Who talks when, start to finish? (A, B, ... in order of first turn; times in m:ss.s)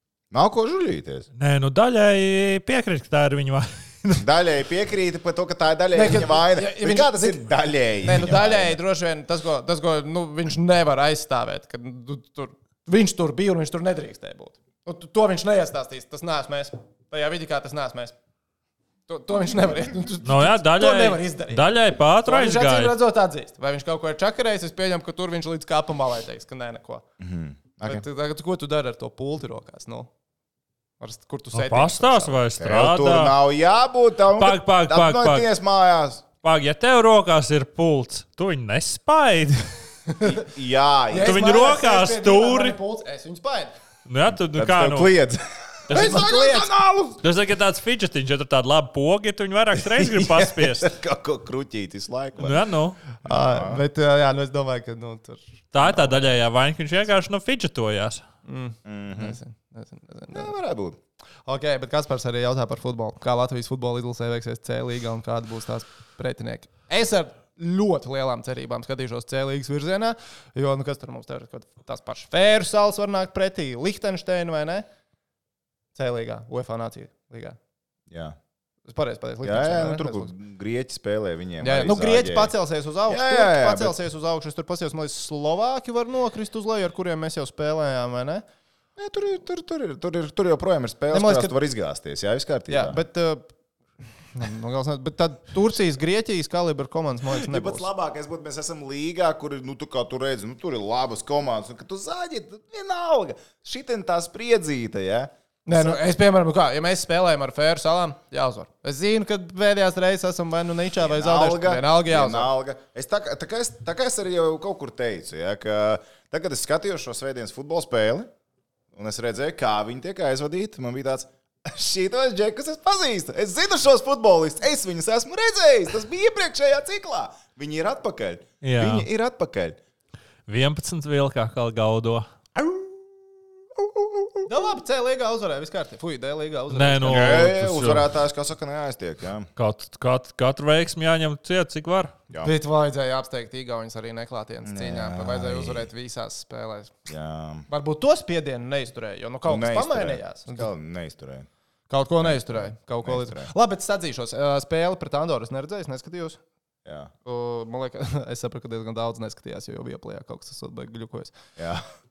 0:00.3-0:01.3 A
0:01.3-0:04.2 B
0:04.2-0:08.8 A
0:05.9-0:07.5 C
0:08.0-0:18.1 C
0:19.1-0:21.7 C
0:20.2-0:22.9 B
0:22.2-0:27.0 C
0:27.2-0:28.0 A
0:27.8-0:30.1 C
0:31.0-0:32.4 C
0:31.5-0:33.3 B
0:32.6-0:36.2 A
0:34.3-0:35.5 B
0:36.4-0:39.7 B
0:40.1-0:40.4 C
0:40.4-0:41.5 A
0:41.1-0:43.7 C
0:41.1-0:42.8 B
0:44.0-0:45.1 B
0:44.5-0:47.2 A
0:45.9-0:46.7 C
0:45.9-0:46.2 B
0:47.2-0:50.9 B
0:49.8-0:52.6 A
0:52.4-0:53.0 B
0:53.2-0:56.2 C
0:53.2-0:53.8 A
0:55.7-0:58.2 B
0:58.4-1:00.5 C
0:58.8-0:59.4 A
1:00.3-1:01.0 A
1:01.5-1:14.8 C
1:15.9-1:17.6 C
1:18.1-1:18.4 A
1:18.9-1:20.3 C
1:19.4-1:22.5 A
1:21.6-1:28.4 C
1:23.1-1:23.9 A
1:29.0-1:33.0 A
1:31.1-1:31.5 C
1:32.7-1:33.5 C
1:34.2-1:37.9 C
1:37.4-1:46.0 A
1:45.6-1:52.5 C
1:51.0-1:58.3 A
1:58.9-2:09.8 A
2:08.6-2:09.0 B
2:10.5-2:12.2 B
2:12.6-2:13.1 A
2:13.8-2:14.4 A
2:14.5-2:17.4 C
2:16.7-2:18.1 B
2:17.0-2:19.5 A
2:19.6-2:22.2 B
2:22.4-2:26.9 C
2:24.6-2:25.9 A
2:27.1-2:27.6 A
2:27.7-2:30.7 C
2:29.5-2:31.5 A
2:31.9-2:36.4 C
2:32.2-2:33.5 A
2:36.8-2:37.1 A
2:37.2-2:41.3 C
2:41.6-2:41.8 A